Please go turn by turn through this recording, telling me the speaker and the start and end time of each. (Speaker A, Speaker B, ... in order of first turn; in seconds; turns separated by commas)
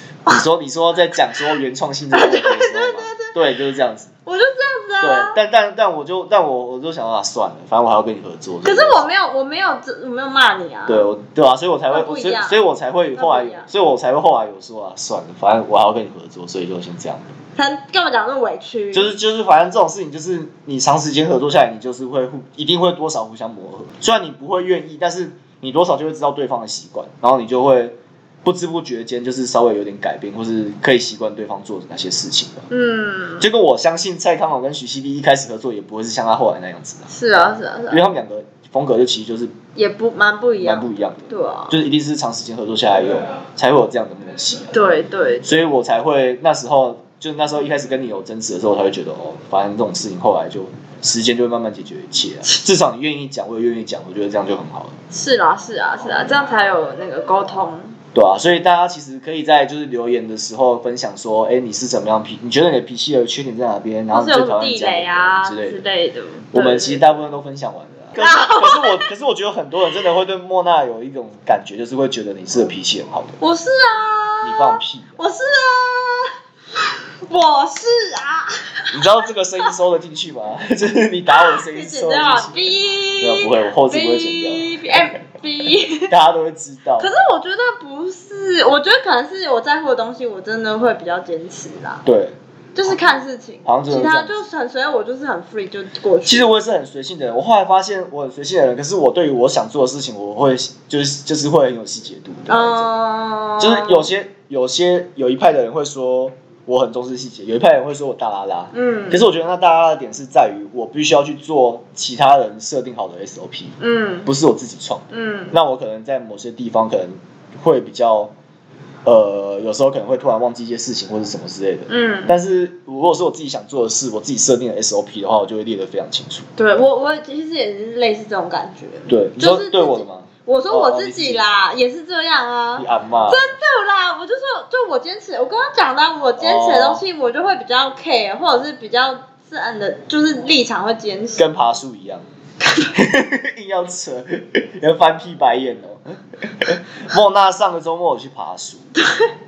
Speaker A: 0.3-4.1, Speaker B: 2.1-3.4, Speaker B: 4.3-5.4, Speaker A: 5.0-9.1, Speaker B: 8.6-11.1, Speaker A: 10.9-17.4, Speaker B: 11.9-12.6, Speaker B: 13.2-13.7, Speaker B: 17.6-19.1, Speaker A: 18.9-32.7, Speaker B: 32.7-33.5, Speaker A: 33.4-37.1, Speaker B: 37.1-38.0, Speaker A: 37.9-39.5, Speaker B: 39.8-41.8, Speaker A: 40.6-44.7, Speaker B: 44.7-45.6, Speaker A: 45.4-55.0, Speaker B: 55.1-58.0, Speaker A: 58.1-65.8, Speaker B: 64.1-67.1, Speaker A: 66.5-73.4, Speaker B: 68.2-69.1, Speaker B: 73.4-76.3, Speaker A: 74.4-75.2, Speaker B: 77.2-79.0, Speaker A: 78.9-82.7, Speaker B: 81.3-86.1, Speaker A: 83.2-85.0, Speaker A: 86.1-87.1, Speaker B: 87.0-92.0, Speaker A: 92.0-93.0, Speaker B: 92.8-96.5, Speaker A: 93.7-94.4, Speaker A: 96.2-102.9, Speaker B: 102.5-104.1, Speaker A: 103.6-118.3, Speaker B: 108.7-109.3, Speaker B: 113.8-114.3, Speaker B: 115.1-115.5, Speaker A: 119.0-126.5, Speaker B: 121.9-122.4, Speaker B: 126.6-141.5, Speaker A: 129.1-131.4, Speaker A: 132.8-133.4, Speaker A: 136.4-137.0, Speaker A: 141.4-142.2, Speaker B: 142.6-142.9, Speaker A: 142.9-148.9, Speaker B: 149.0-149.3